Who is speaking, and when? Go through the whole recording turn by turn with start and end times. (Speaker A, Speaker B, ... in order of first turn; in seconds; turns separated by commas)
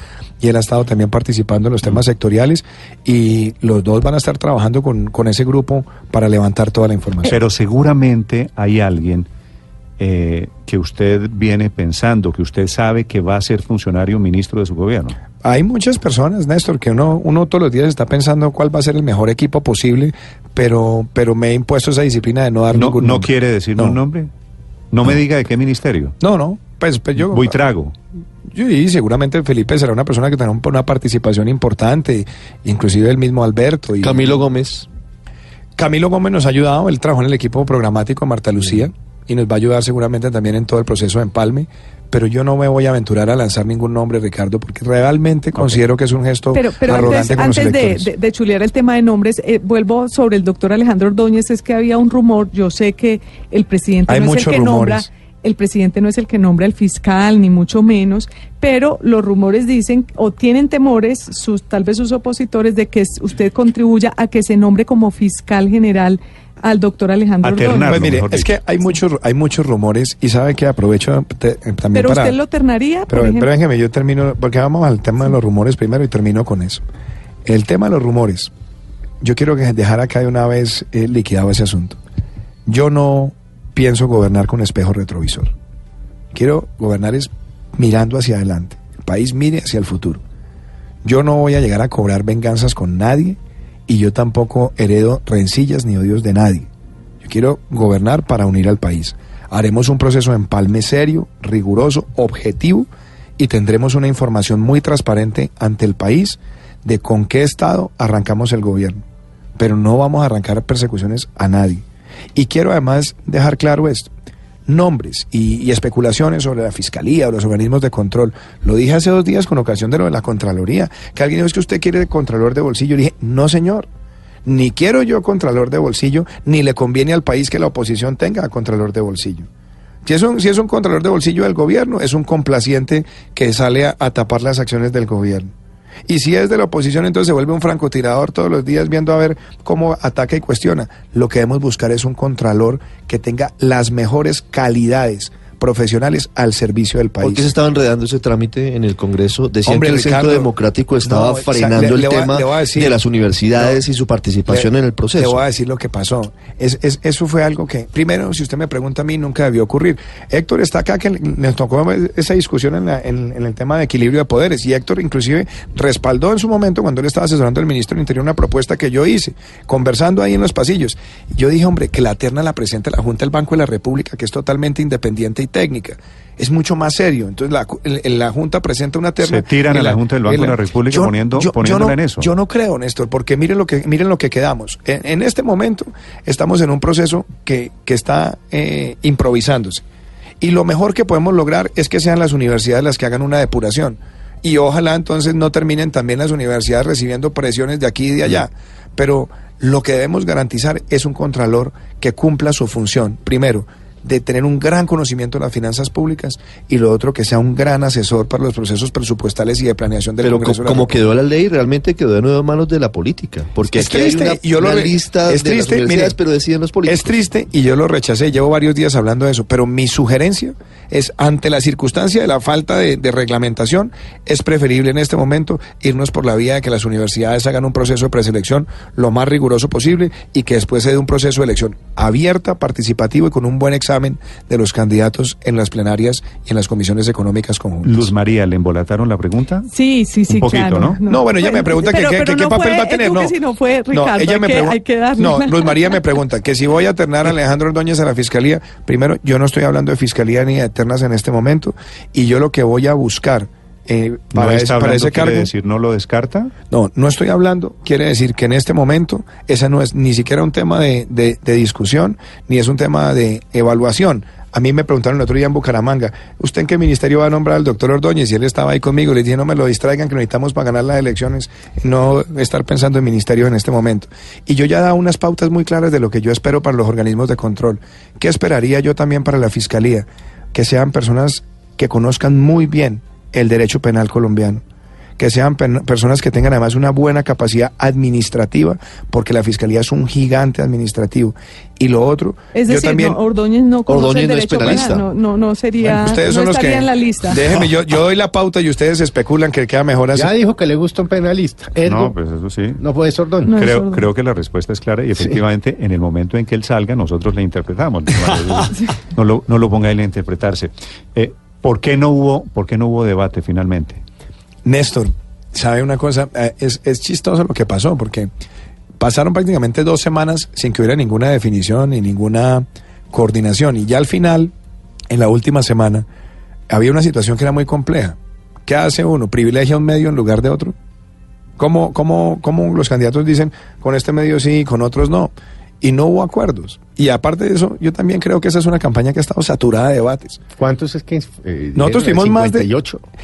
Speaker A: 0.4-7.3, Speaker B: 7.3-9.3, Speaker B: 10.0-15.2, Speaker A: 15.4-24.0, Speaker B: 22.7-24.3, Speaker B: 24.9-26.1, Speaker A: 26.2-27.6, Speaker B: 27.2-27.9, Speaker A: 28.5-34.4, Speaker C: 34.0-34.9, Speaker A: 35.8-48.1, Speaker D: 46.5-68.2, Speaker A: 54.1-55.1, Speaker B: 67.4-68.5, Speaker A: 67.9-72.4, Speaker D: 71.9-73.5, Speaker A: 73.1-76.8, Speaker A: 77.4-78.5, Speaker A: 79.2-82.0, Speaker A: 82.7-85.5, Speaker A: 86.3-90.2, Speaker A: 91.0-96.7, Speaker A: 97.2-109.0, Speaker A: 109.5-114.1, Speaker A: 114.7-123.9, Speaker A: 124.4-129.5, Speaker A: 130.0-135.5, Speaker A: 136.1-147.5, Speaker C: 147.2-155.4, Speaker A: 149.6-150.5, Speaker A: 151.0-153.0, Speaker A: 153.6-153.8, Speaker A: 154.5-189.8, Speaker B: 179.2-182.3, Speaker A: 190.4-211.0, Speaker C: 210.2-217.1, Speaker A: 213.6-216.2, Speaker A: 216.8-238.1, Speaker B: 237.8-239.7, Speaker D: 239.7-246.0, Speaker B: 240.3-241.0, Speaker A: 241.0-243.3, Speaker A: 243.9-255.5, Speaker B: 254.3-256.5, Speaker A: 256.7-284.6, Speaker A: 285.2-293.2, Speaker D: 292.5-297.4, Speaker C: 293.9-295.1, Speaker A: 295.8-300.3, Speaker E: 300.1-302.1, Speaker B: 301.8-302.8, Speaker E: 302.8-303.6, Speaker D: 303.4-304.1, Speaker B: 303.5-314.0, Speaker A: 314.6-318.3, Speaker A: 319.0-324.5, Speaker A: 325.1-326.1, Speaker A: 326.7-330.7, Speaker A: 331.6-340.4, Speaker E: 340.6-343.0, Speaker A: 341.7-342.7